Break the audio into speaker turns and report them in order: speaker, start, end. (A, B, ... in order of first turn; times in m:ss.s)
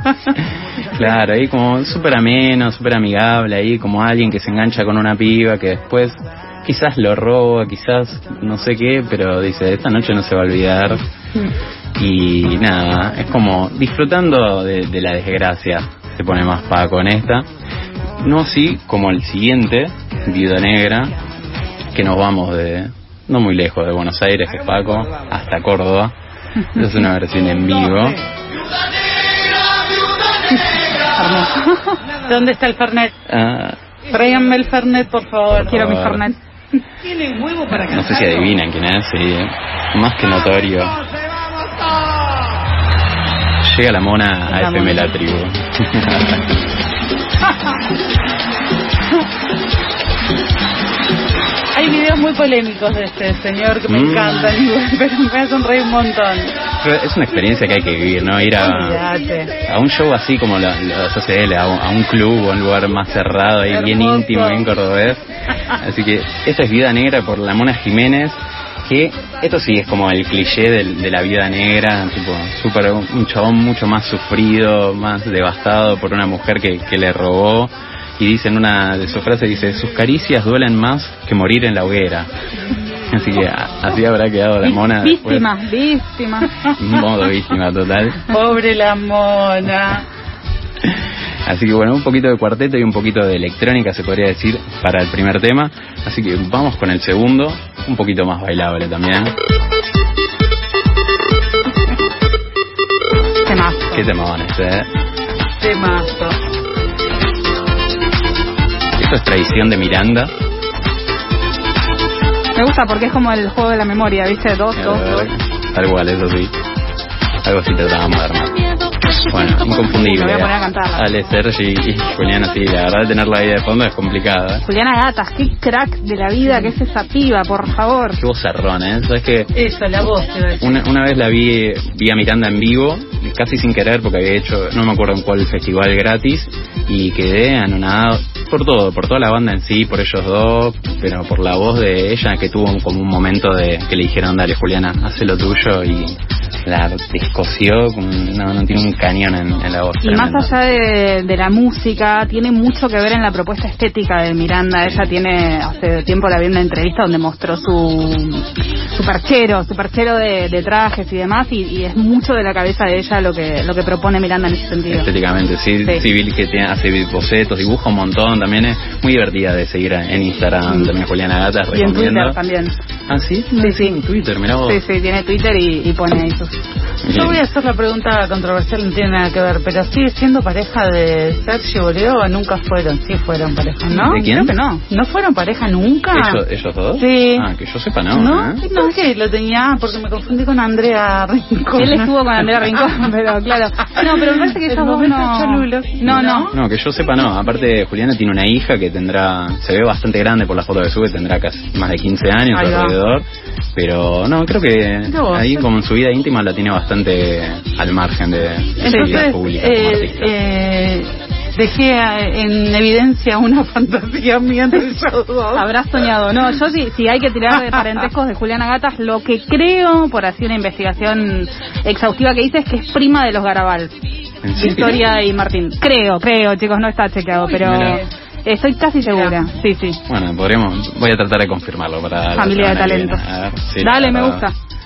0:00.4-0:11.0 A
0:12.0-0:17.5 A
0:18.2-0:21.2 A
0:21.9-0:26.2 A
0:26.7-0:28.2 A
0:31.2-0:32.0 B
0:32.2-0:33.1 C
0:33.3-0:33.8 A
0:34.1-0:35.8 C
0:35.5-0:36.2 A
0:35.6-0:36.4 B
0:37.7-0:41.0 A
0:43.6-0:46.5 A
0:44.5-0:45.1 C
0:51.7-0:56.5 C
0:53.9-0:54.6 A
0:56.8-0:59.1 A
0:58.6-0:59.5 C
0:59.6-1:22.3 A
1:03.7-1:04.6 C
1:23.1-1:25.5 A
1:24.6-1:26.5 B
1:26.6-1:28.3 A
1:28.3-1:30.1 C
1:31.5-1:39.4 A
1:43.5-1:44.1 B
1:43.9-1:44.9 A
1:45.6-1:46.4 C
1:49.0-1:50.3 A
1:52.6-1:55.3 B
1:54.8-1:56.5 A
1:57.4-1:58.6 A
1:59.2-2:04.6 A
1:59.4-2:01.2 B
2:04.6-2:08.2 B
2:08.2-2:09.5 A
2:09.6-2:10.7 C
2:10.6-2:30.6 A
2:30.0-2:45.1 B
2:34.8-2:35.1 A
2:44.9-2:52.4 A
2:51.7-2:52.8 B
2:53.1-2:54.8 A
2:53.6-2:54.0 B
2:54.7-2:56.6 B
2:57.0-2:57.4 A
2:57.1-3:04.3 C
3:03.9-3:04.8 B
3:04.1-3:04.5 A
3:04.9-3:06.4 C
3:06.1-3:08.6 A
3:07.0-3:07.4 B
3:07.0-3:07.3 C
3:08.1-3:12.1 C
3:11.8-3:16.5 B
3:13.9-3:16.6 C
3:16.1-3:30.3 A
3:22.5-3:23.0 C
3:25.1-3:25.7 C
3:28.8-3:35.7 C
3:28.9-3:29.2 B
3:35.5-3:44.0 B
3:44.4-3:45.1 A
3:44.6-3:50.0 B
3:47.4-3:48.1 C
3:47.6-3:48.0 A
3:49.1-3:49.4 C
3:50.1-3:54.5 A
3:52.4-3:53.2 B
3:53.8-3:54.5 B